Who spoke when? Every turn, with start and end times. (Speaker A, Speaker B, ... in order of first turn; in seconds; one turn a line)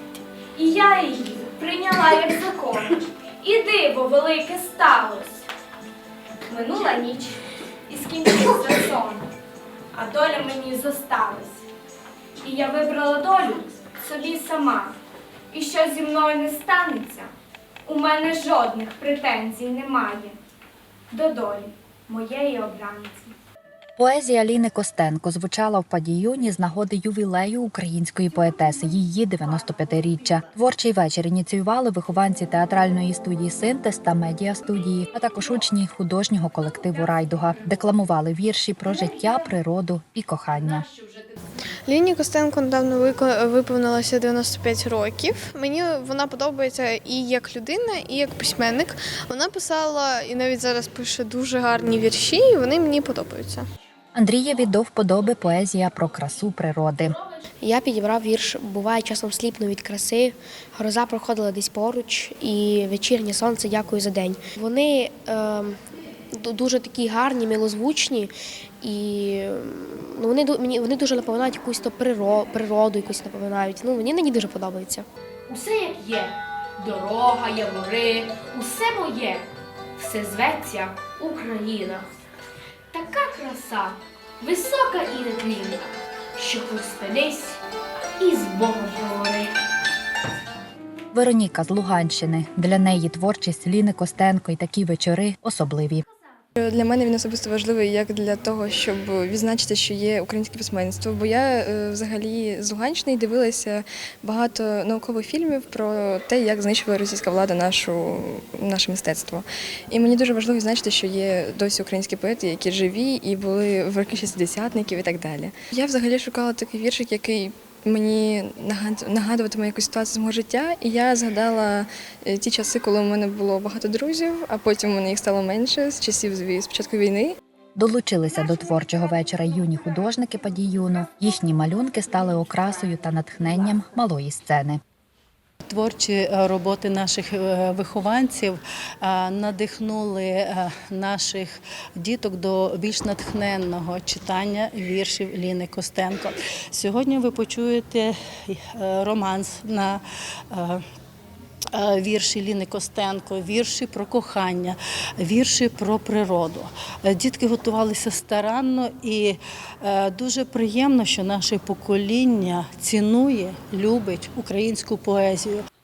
Speaker A: 0.6-5.4
Speaker A: 6.5-7.4
Speaker A: 7.9-9.2
Speaker A: 9.9-11.6
Speaker A: 12.4-14.9
Speaker A: 15.5-17.3
Speaker A: 17.9-20.4
Speaker A: 21.1-23.3
Speaker B: 24.0-40.9
Speaker C: 41.9-53.7
Speaker B: 54.1-57.2
Speaker D: 57.6-65.8
Speaker D: 66.4-68.3
Speaker D: 68.8-75.1
Speaker E: 75.5-82.1
Speaker E: 82.9-87.6
Speaker E: 88.2-89.5
Speaker B: 91.1-96.0
Speaker F: 96.6-127.4
Speaker B: 127.8-134.8
Speaker G: 135.6-150.0
Speaker G: 150.5-150.8
Speaker G: 151.8-165.6